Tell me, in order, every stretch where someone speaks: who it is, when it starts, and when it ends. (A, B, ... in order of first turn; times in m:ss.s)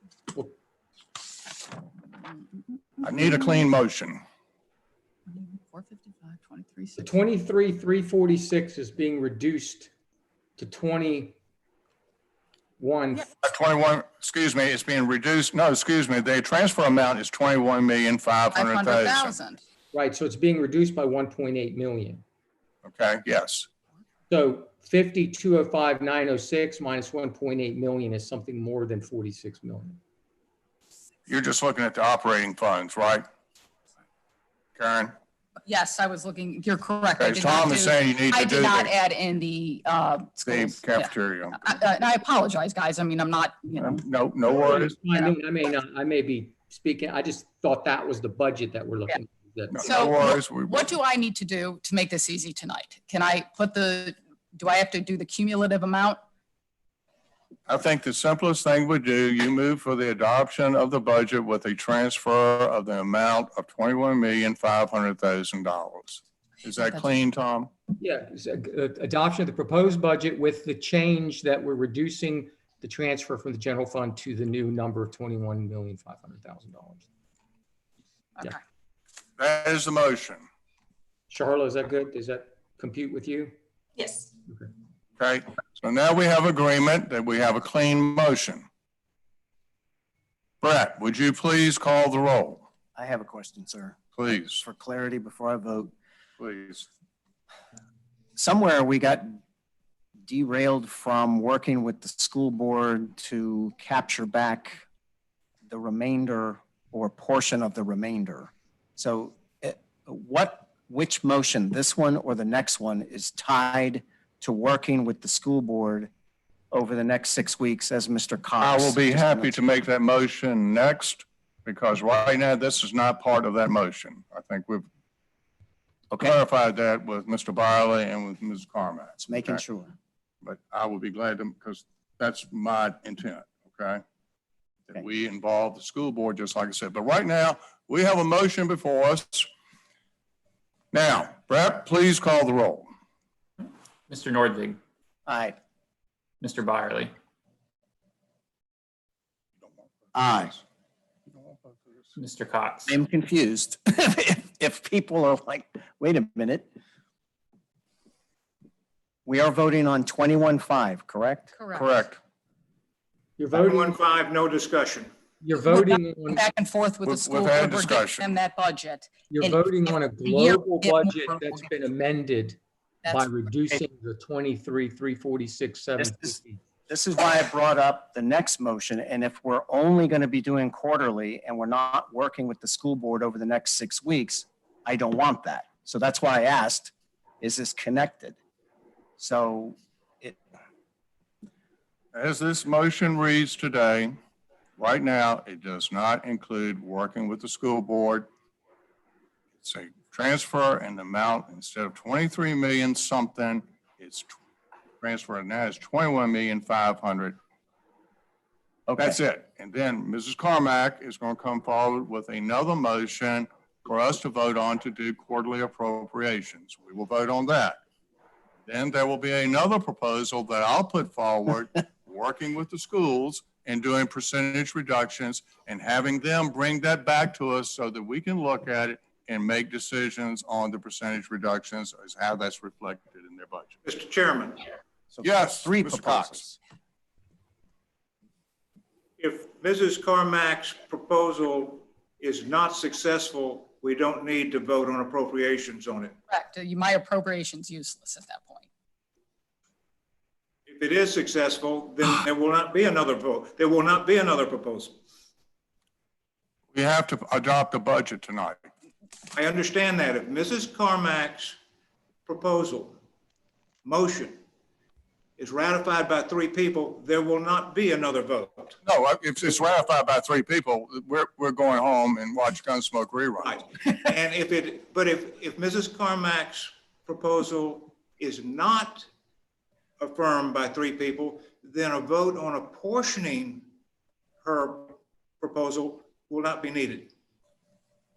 0:03.0-0:04.2 A
0:03.1-0:03.6 B
0:05.3-0:07.1 B
0:07.0-0:09.9 C
0:10.6-0:11.4 C
0:12.8-0:13.3 C
0:13.4-0:19.3 A
0:18.5-0:19.6 B
0:19.9-0:22.2 C
0:22.8-0:23.7 A
0:24.3-0:30.0 C
0:31.3-0:33.2 A
0:34.8-0:35.1 A
0:35.7-0:44.0 B
0:37.2-0:38.9 A
0:40.4-0:41.6 A
0:43.8-0:45.0 A
0:44.5-0:50.1 C
0:49.7-0:50.9 A
0:49.8-0:56.2 B
0:57.7-1:07.7 A
1:08.0-1:17.1 C
1:19.4-1:20.4 A
1:21.3-1:23.5 C
1:25.2-1:28.6 A
1:30.6-1:32.6 A
1:33.0-1:35.9 D
1:34.2-1:34.6 A
1:36.4-1:36.9 A
1:38.4-1:39.4 D
1:40.3-1:44.8 D
1:45.7-1:56.1 D
1:56.7-1:59.6 D
1:58.6-2:04.9 A
2:06.1-2:09.6 A
2:09.2-2:09.9 D
2:10.4-2:14.0 A
2:14.9-2:19.5 A
2:20.9-2:22.9 A
2:24.1-2:24.8 E
2:25.3-2:25.6 D
2:26.4-2:27.1 E
2:29.8-2:30.6 A
2:30.2-2:30.6 D
2:31.3-2:31.8 A
2:32.2-2:33.0 E
2:32.9-2:36.7 D
2:39.2-2:41.5 D
2:41.6-2:42.0 B
2:41.7-2:42.2 A
2:43.4-2:44.0 C
2:43.5-2:45.1 F
2:45.4-2:46.5 C
2:45.6-2:51.6 B
2:47.0-2:48.3 A
2:49.3-2:56.6 C
2:56.0-2:56.4 D
2:56.9-3:08.4 D
3:09.2-3:10.4 D
3:12.1-3:14.1 A
3:14.8-3:18.3 A
3:19.6-3:24.3 A
3:25.0-3:27.4 A
3:28.9-3:29.2 D
3:29.0-3:37.8 A
3:38.7-3:53.7 A
3:53.8-3:54.7 F
3:55.1-3:56.6 D
3:55.2-3:56.4 A
3:59.2-4:06.1 F
4:06.3-4:08.7 B
4:10.7-4:15.0 F
4:16.7-4:18.7 A
4:19.3-4:21.6 F
4:22.2-4:23.0 F
4:23.8-4:24.4 F
4:25.4-4:28.8 F
4:28.8-4:33.6 A
4:33.4-4:39.1 F
4:40.0-4:43.7 F
4:44.4-4:47.1 F